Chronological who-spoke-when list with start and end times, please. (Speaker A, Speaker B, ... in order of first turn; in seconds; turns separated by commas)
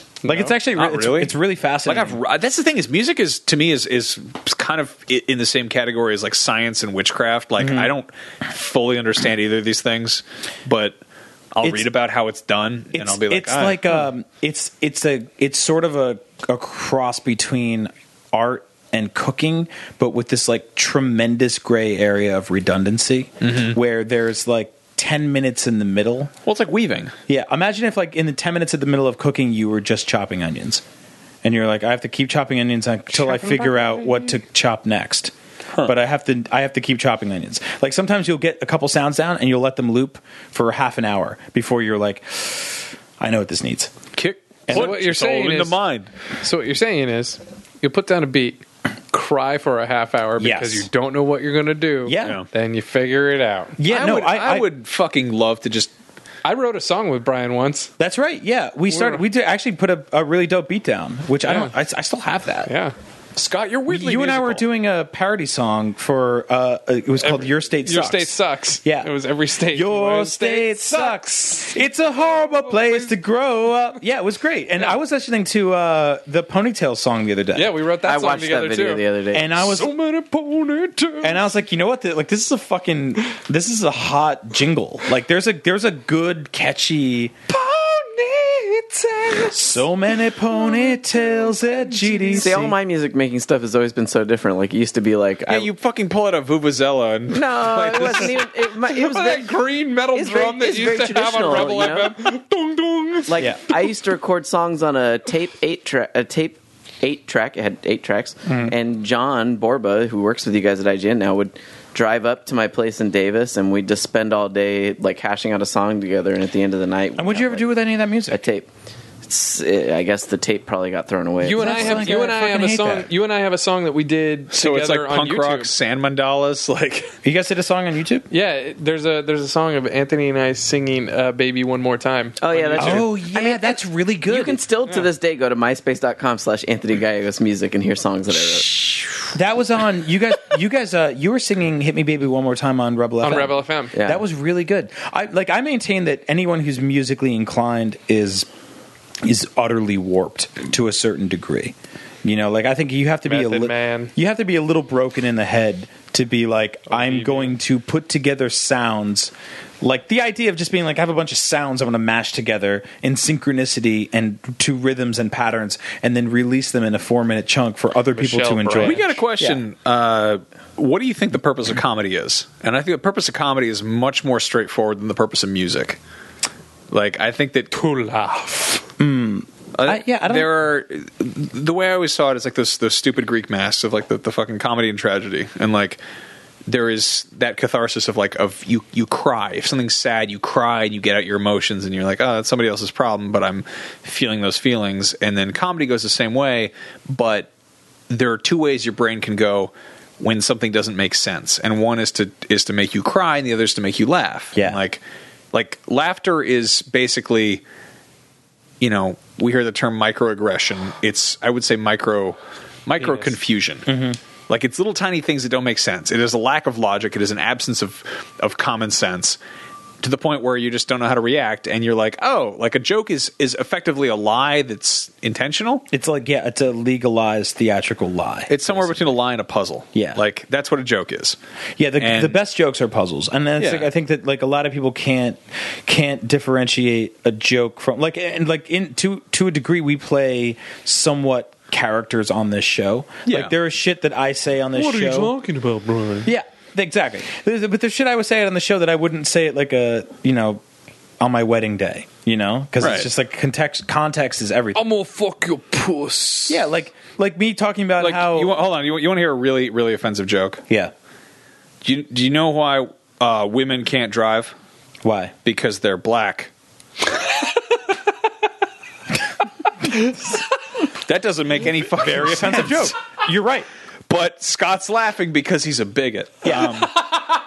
Speaker A: 0.2-2.2, Speaker B: 0.2-1.3, Speaker B: 1.9-11.0, Speaker A: 7.6-7.9, Speaker B: 11.5-13.9, Speaker A: 11.6-11.9, Speaker A: 12.9-26.3, Speaker B: 23.4-23.8, Speaker B: 26.4-27.1, Speaker A: 27.3-30.8, Speaker A: 31.4-35.3, Speaker C: 33.2-34.3, Speaker A: 35.8-43.9, Speaker B: 44.1-46.1, Speaker A: 44.7-44.9, Speaker C: 44.7-45.8, Speaker C: 46.4-53.9, Speaker A: 50.4-50.9, Speaker A: 52.0-52.4, Speaker B: 52.2-52.5, Speaker A: 53.8-54.7, Speaker B: 53.9-55.9, Speaker C: 56.4-57.9, Speaker A: 58.0-62.7, Speaker C: 58.9-59.2, Speaker C: 61.5-61.7, Speaker C: 62.7-64.6, Speaker A: 63.9-68.3, Speaker C: 67.2-71.8, Speaker A: 68.8-69.1, Speaker A: 69.7-77.8, Speaker C: 72.5-73.1, Speaker C: 77.5-79.0, Speaker D: 78.0-79.5, Speaker A: 79.3-79.9, Speaker C: 79.5-81.4, Speaker A: 81.2-87.3, Speaker C: 87.5-89.9, Speaker A: 89.5-92.8, Speaker C: 90.5-92.6, Speaker D: 92.3-95.7, Speaker B: 95.5-98.4, Speaker D: 97.3-99.6, Speaker C: 98.7-103.4, Speaker D: 100.1-102.2, Speaker D: 103.2-117.7, Speaker A: 103.4-103.7, Speaker A: 108.5-108.7, Speaker A: 117.2-118.4, Speaker D: 118.3-118.7, Speaker D: 119.2-122.3, Speaker C: 121.4-125.7, Speaker A: 121.5-123.1, Speaker B: 124.5-127.1, Speaker A: 127.2-128.3, Speaker C: 128.3-133.0, Speaker D: 132.4-138.9, Speaker A: 132.8-134.6, Speaker A: 139.3-148.5, Speaker C: 143.2-143.9, Speaker D: 143.9-144.2, Speaker A: 149.2-169.6, Speaker C: 153.3-154.1, Speaker C: 156.9-157.5, Speaker C: 168.1-169.0, Speaker B: 168.8-176.0, Speaker B: 176.9-177.8, Speaker C: 177.7-178.8, Speaker A: 179.0-180.5, Speaker B: 179.7-186.0, Speaker B: 186.7-197.5, Speaker B: 198.1-205.0, Speaker B: 205.5-207.6, Speaker B: 208.8-213.9, Speaker C: 213.0-213.3, Speaker A: 213.8-214.2, Speaker B: 214.5-219.4, Speaker B: 220.0-225.8, Speaker A: 225.9-229.1, Speaker B: 228.5-231.4, Speaker A: 229.9-230.2, Speaker A: 231.8-245.3, Speaker B: 232.0-232.4, Speaker B: 233.6-233.9, Speaker B: 243.2-243.5, Speaker C: 244.7-246.3, Speaker A: 246.2-250.6, Speaker A: 251.2-254.8, Speaker B: 252.8-253.1, Speaker C: 254.7-256.6, Speaker A: 256.5-258.5, Speaker B: 258.0-260.6, Speaker B: 261.8-264.5, Speaker A: 265.0-265.3, Speaker B: 265.4-266.5, Speaker A: 269.9-270.2, Speaker B: 271.0-272.9, Speaker A: 271.9-273.7, Speaker B: 274.1-277.0, Speaker A: 276.4-276.9